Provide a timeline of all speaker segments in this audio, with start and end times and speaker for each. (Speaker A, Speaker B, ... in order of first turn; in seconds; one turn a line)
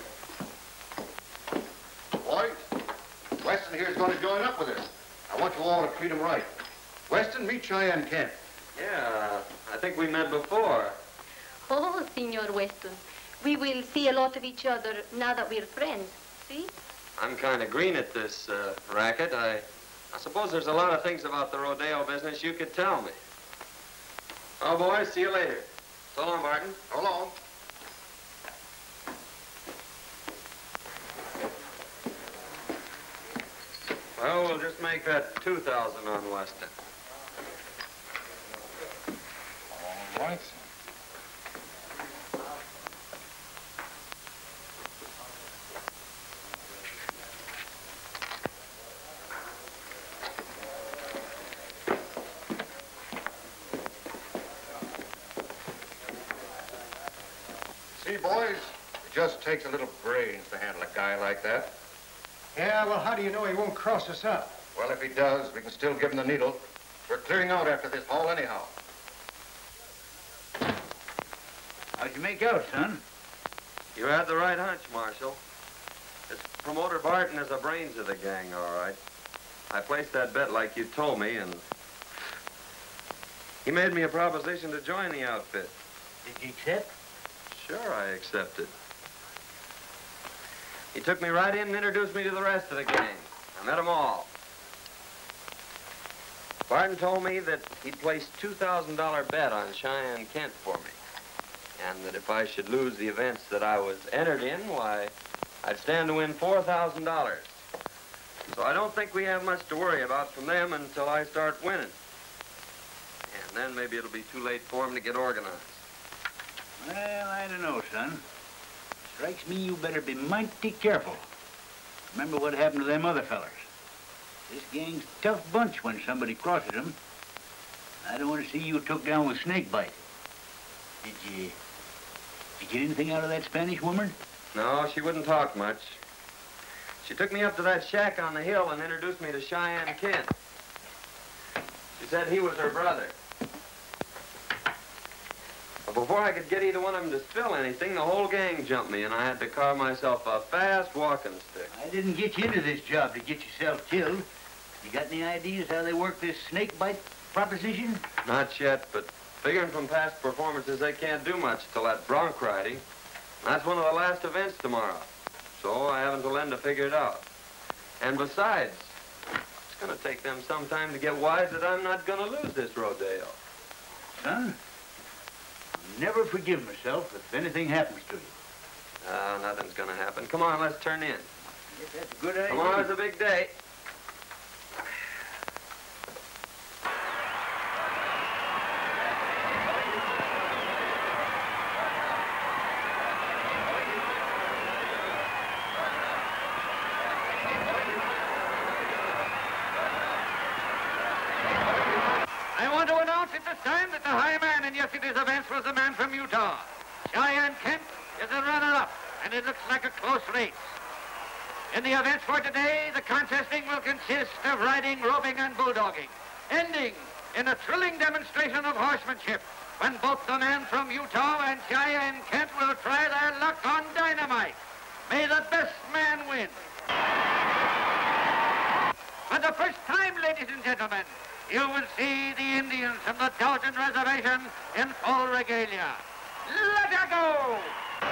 Speaker A: 2.2-2.6
Speaker A: 3.4-6.5
Speaker A: 7.1-8.4
Speaker B: 8.8-11.0
Speaker C: 11.7-16.7
Speaker B: 17.2-23.2
Speaker B: 24.6-26.8
Speaker A: 26.9-27.4
Speaker B: 34.2-36.7
Speaker A: 39.7-40.6
Speaker A: 58.0-61.7
Speaker D: 62.5-64.6
Speaker A: 64.7-68.7
Speaker E: 72.0-73.0
Speaker B: 74.0-75.4
Speaker B: 76.3-79.0
Speaker B: 79.7-81.6
Speaker B: 83.7-85.7
Speaker E: 86.2-86.9
Speaker B: 87.5-88.7
Speaker B: 90.9-94.3
Speaker B: 96.7-101.0
Speaker B: 101.8-107.6
Speaker B: 108.5-112.0
Speaker B: 113.3-115.8
Speaker E: 116.8-118.2
Speaker E: 119.1-121.2
Speaker E: 122.1-123.7
Speaker E: 124.5-127.0
Speaker E: 128.0-130.0
Speaker E: 131.0-131.6
Speaker E: 132.6-134.2
Speaker B: 134.5-136.0
Speaker B: 137.0-140.3
Speaker B: 142.0-143.1
Speaker B: 145.9-151.7
Speaker E: 151.7-154.3
Speaker E: 154.8-158.1
Speaker B: 158.2-162.8
Speaker B: 163.4-167.2
Speaker B: 168.0-168.9
Speaker B: 169.7-173.4
Speaker E: 174.2-174.6
Speaker E: 175.7-178.3
Speaker B: 179.0-181.3
Speaker E: 181.7-182.9
Speaker B: 182.5-183.5
Speaker F: 202.6-210.7
Speaker F: 211.7-224.6
Speaker F: 225.1-226.6
Speaker F: 229.3-237.8